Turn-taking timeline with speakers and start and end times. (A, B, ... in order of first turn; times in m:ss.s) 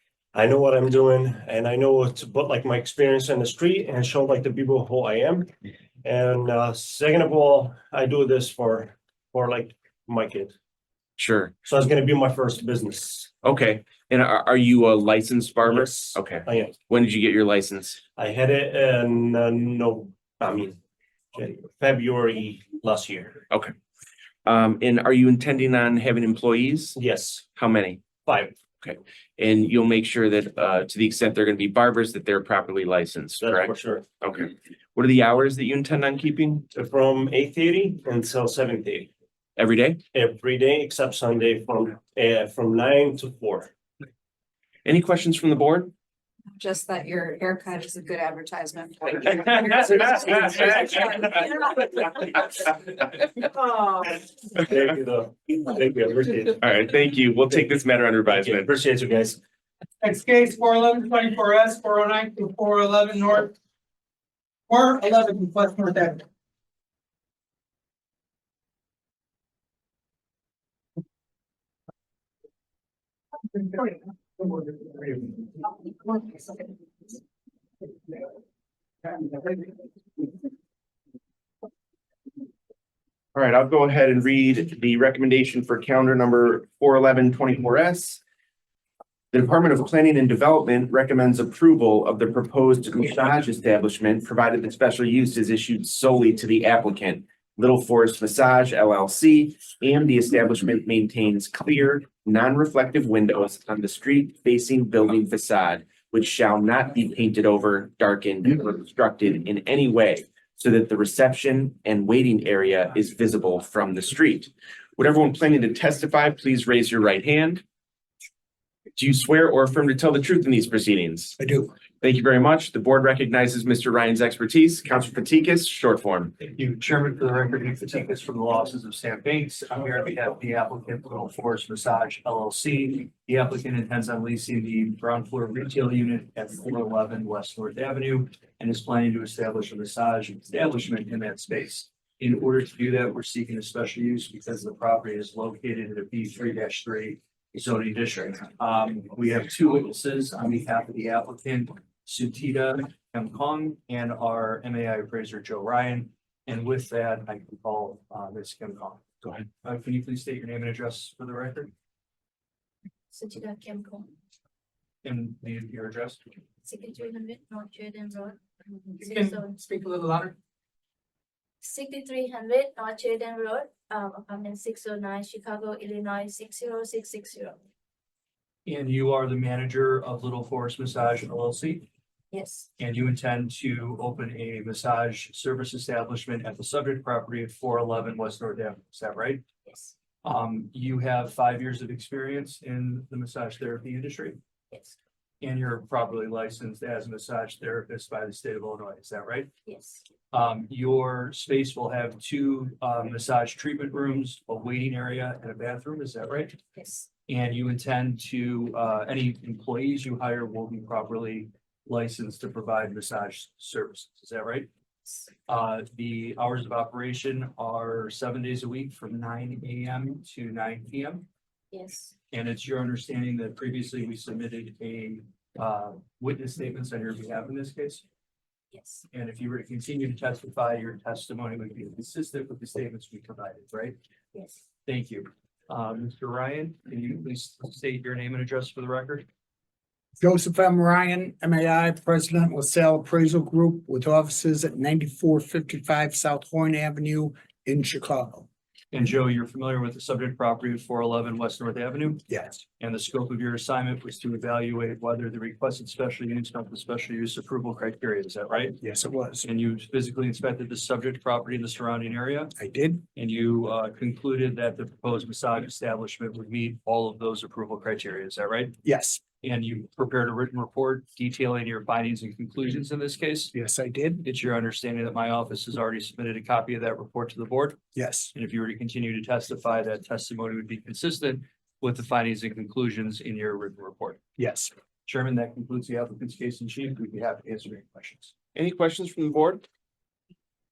0:00.3-0:05.5 A
0:06.0-0:10.5 A
0:11.2-0:11.5 B
0:11.6-0:13.3 A
0:13.4-0:18.0 B
0:15.6-0:16.8 A
0:18.1-0:20.8 A
0:21.3-0:23.4 A
0:24.4-0:27.0 B
0:26.9-0:27.4 A
0:27.6-0:28.1 B
0:28.2-0:28.6 A
0:28.8-0:36.7 B
0:33.4-0:34.1 A
0:36.7-0:39.1 A
0:39.6-0:40.0 B
0:40.1-0:43.7 A
0:44.8-0:45.9 B
0:46.5-0:52.1 C
0:53.3-0:54.0 C
0:54.0-0:56.6 A
0:56.6-0:58.7 B
0:58.3-0:59.4 A
1:00.0-1:03.5 D
1:04.7-1:06.2 D
1:23.3-1:28.2 B
1:29.3-1:57.6 B
1:59.0-2:01.4 B
2:01.4-2:01.7 E
2:02.0-2:06.3 B
2:06.5-2:39.0 F
2:39.6-2:41.7 F
2:43.1-2:44.1 G
2:45.0-2:46.2 F
2:46.6-2:48.4 G
2:49.0-2:49.6 G
2:49.2-2:50.3 D
2:51.6-2:57.6 G
2:58.6-3:01.9 F
3:02.3-3:02.7 G
3:02.8-3:09.4 F
3:09.6-3:09.9 G
3:10.2-3:14.4 F
3:14.7-3:15.0 G
3:15.4-3:19.5 F
3:19.6-3:20.0 G
3:20.3-3:26.6 F
3:26.7-3:27.1 G
3:27.3-3:34.7 F
3:35.5-3:41.2 F
3:41.7-3:42.1 G
3:42.3-3:48.0 F
3:48.7-3:49.0 G
3:49.1-3:54.0 F
3:54.3-3:54.6 G
3:54.8-3:59.3 F
4:00.2-4:08.5 E
4:08.9-4:12.2 F
4:12.3-4:12.6 E
4:12.8-4:18.8 F
4:18.8-4:19.5 E
4:19.4-4:22.5 F
4:22.6-4:23.0 E
4:23.1-4:28.8 F
4:28.8-4:29.2 E
4:29.4-4:33.5 F
4:33.5-4:34.2 E
4:34.2-4:37.8 F
4:37.9-4:38.3 E
4:38.3-4:44.2 F
4:44.4-4:44.7 E
4:45.0-4:48.3 F
4:48.5-4:49.6 B